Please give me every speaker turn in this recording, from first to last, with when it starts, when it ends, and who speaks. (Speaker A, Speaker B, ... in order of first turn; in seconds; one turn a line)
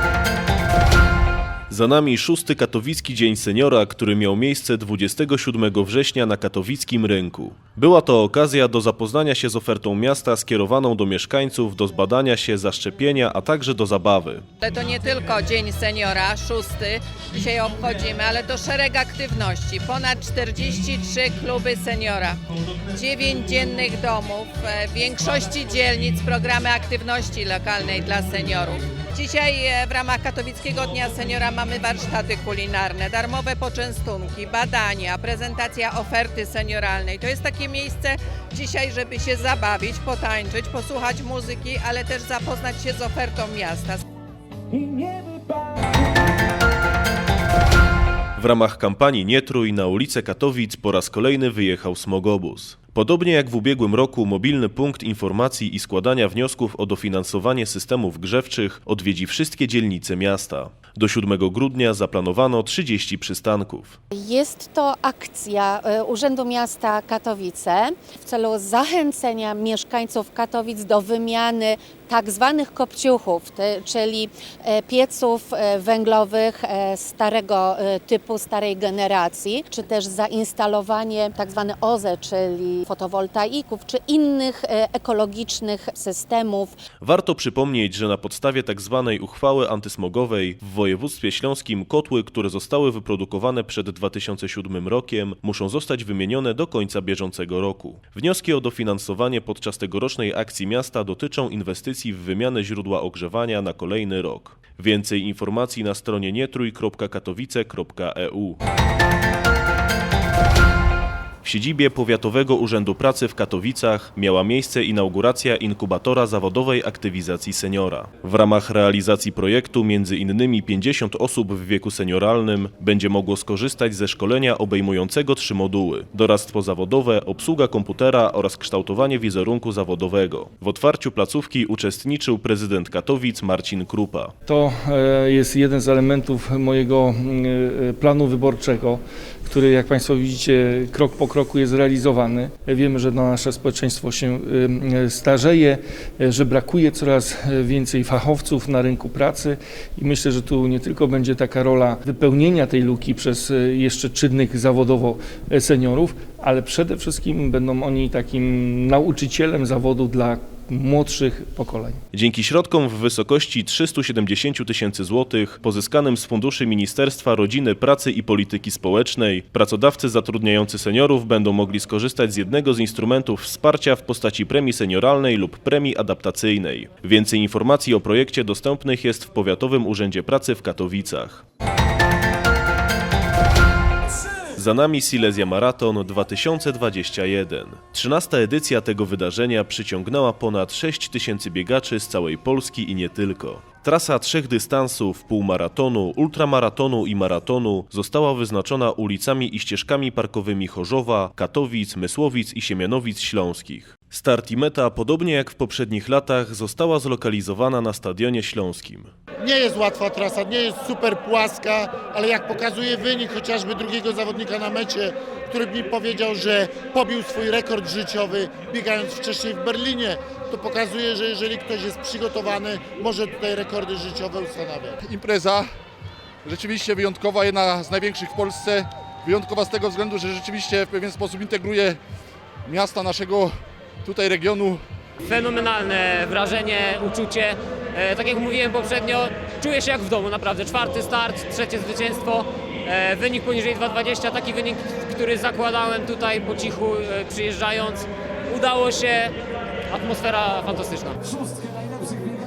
Speaker A: 1.7-14.4
Speaker B: 14.6-22.4
Speaker B: 22.9-44.0
Speaker A: 48.4-64.0
Speaker C: 64.1-86.8
Speaker A: 87.0-108.6
Speaker A: 111.4-134.3
Speaker D: 134.5-162.0
Speaker A: 162.1-181.4
Speaker A: 184.5-209.1
Speaker E: 209.4-225.0
Speaker F: 225.0-225.7
Speaker F: 226.4-232.0
Speaker F: 232.7-233.5
Speaker F: 234.0-234.8
Speaker G: 235.2-249.3
Speaker G: 249.9-251.2